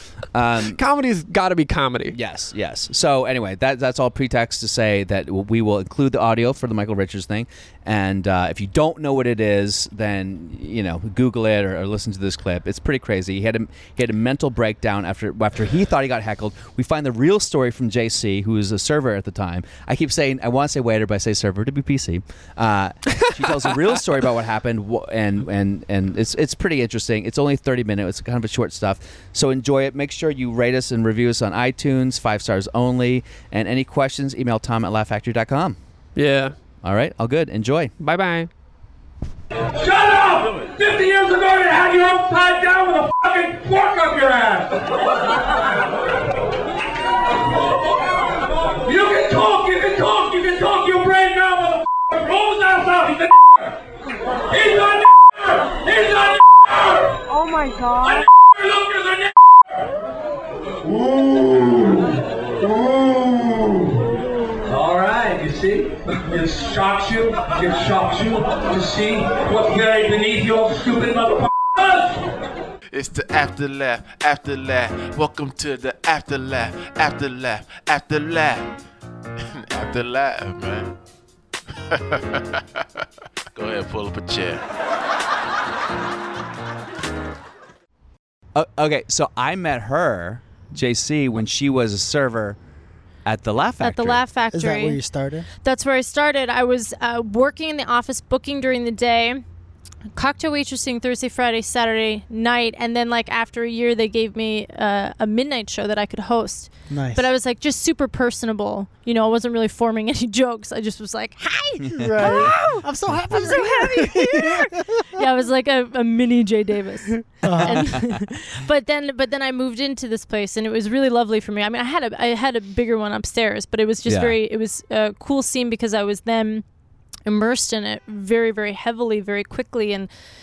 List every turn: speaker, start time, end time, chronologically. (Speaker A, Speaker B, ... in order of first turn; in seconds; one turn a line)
Speaker A: 0.3-0.8
Speaker B: 0.6-2.2
Speaker A: 2.1-35.8
Speaker B: 36.1-36.5
Speaker A: 36.8-37.9
Speaker B: 38.0-38.5
Speaker C: 39.7-45.3
Speaker C: 48.7-53.8
Speaker C: 54.4-59.4
Speaker C: 60.8-64.1
Speaker C: 64.6-72.2
Speaker D: 72.9-78.7
Speaker D: 79.5-80.9
Speaker D: 81.9-83.0
Speaker D: 83.5-84.6
Speaker A: 88.5-92.6
Speaker A: 93.2-94.2
Speaker E: 93.8-95.0
Speaker F: 94.5-95.5
Speaker E: 95.6-99.4
Speaker E: 100.1-126.6
Speaker F: 106.9-107.2
Speaker A: 111.8-112.5
Speaker F: 112.0-115.2
Speaker F: 117.3-118.1
Speaker A: 124.1-124.3
Speaker E: 127.2-130.1